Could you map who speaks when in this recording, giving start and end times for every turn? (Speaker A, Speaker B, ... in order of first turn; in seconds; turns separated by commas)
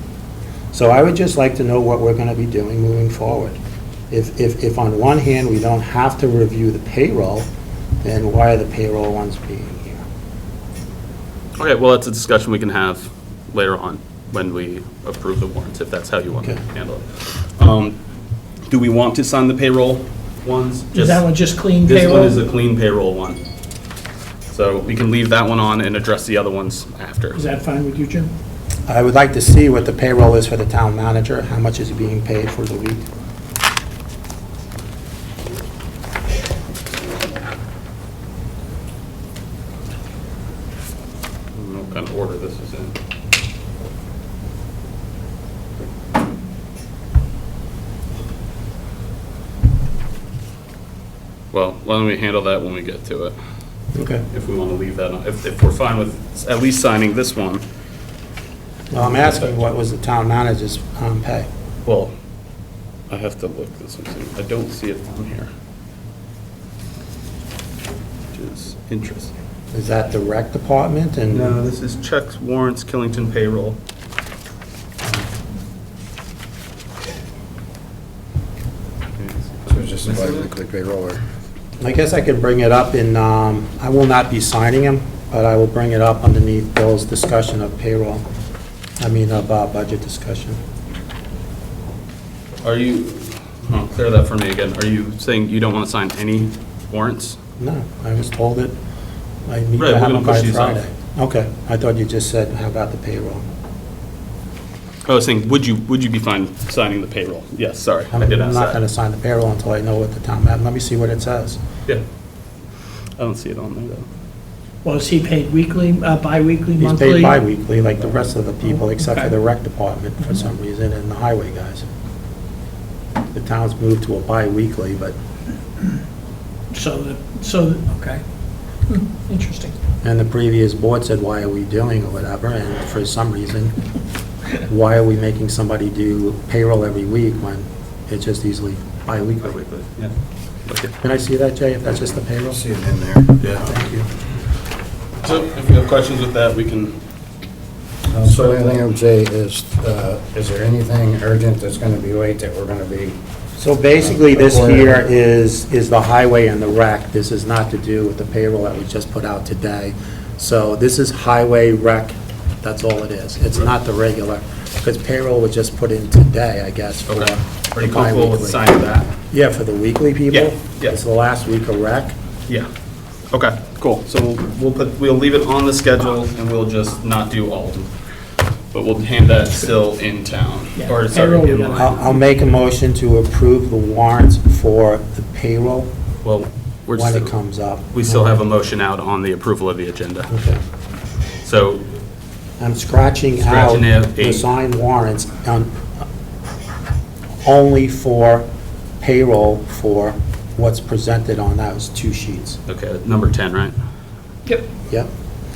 Speaker A: 0.7-3.6, Speaker A: 4.1-7.5, Speaker A: 8.0-10.0, Speaker B: 11.6-18.0, Speaker B: 18.7-21.2, Speaker C: 20.9-22.4, Speaker B: 21.8-23.4, Speaker B: 24.5-27.4, Speaker C: 27.3-28.3, Speaker A: 28.9-33.0, Speaker B: 41.5-43.0, Speaker B: 51.5-53.4, Speaker A: 53.9-54.2, Speaker B: 54.3-57.6, Speaker A: 58.9-61.5, Speaker B: 58.9-59.6, Speaker B: 61.8-62.1, Speaker B: 63.1-65.5, Speaker B: 68.3-69.3, Speaker A: 69.7-71.6, Speaker B: 71.3-73.8, Speaker B: 79.2-80.5, Speaker D: 79.7-81.2, Speaker A: 81.8-88.2, Speaker A: 89.0-90.6, Speaker B: 92.6-97.4, Speaker A: 97.6-98.7, Speaker A: 99.5-103.4, Speaker B: 99.8-100.8, Speaker B: 105.1-108.8, Speaker A: 108.1-111.6, Speaker B: 113.2-114.0, Speaker C: 114.8-117.4, Speaker A: 116.8-121.9, Speaker C: 118.9-119.3, Speaker A: 123.3-125.2, Speaker C: 126.7-128.2, Speaker C: 128.8-129.8, Speaker A: 130.0-133.8, Speaker A: 134.6-139.6, Speaker B: 139.4-140.1, Speaker B: 140.7-140.9, Speaker A: 141.0-142.6, Speaker D: 142.5-143.3, Speaker B: 143.4-143.7, Speaker A: 143.5-144.1, Speaker B: 145.2-147.0, Speaker D: 148.1-153.2, Speaker B: 148.3-148.5, Speaker A: 153.6-168.6, Speaker D: 154.0-155.0, Speaker B: 167.1-169.1, Speaker A: 169.3-172.1, Speaker B: 170.3-171.0, Speaker B: 173.3-177.9, Speaker B: 178.7-181.9, Speaker C: 180.8-182.3, Speaker A: 181.8-185.9, Speaker B: 186.2-187.3, Speaker A: 186.9-188.3, Speaker B: 187.9-190.3, Speaker A: 190.3-190.6, Speaker B: 191.4-191.8, Speaker A: 192.6-196.0, Speaker B: 193.4-194.4, Speaker A: 197.4-198.4, Speaker A: 199.0-202.6, Speaker B: 202.7-203.7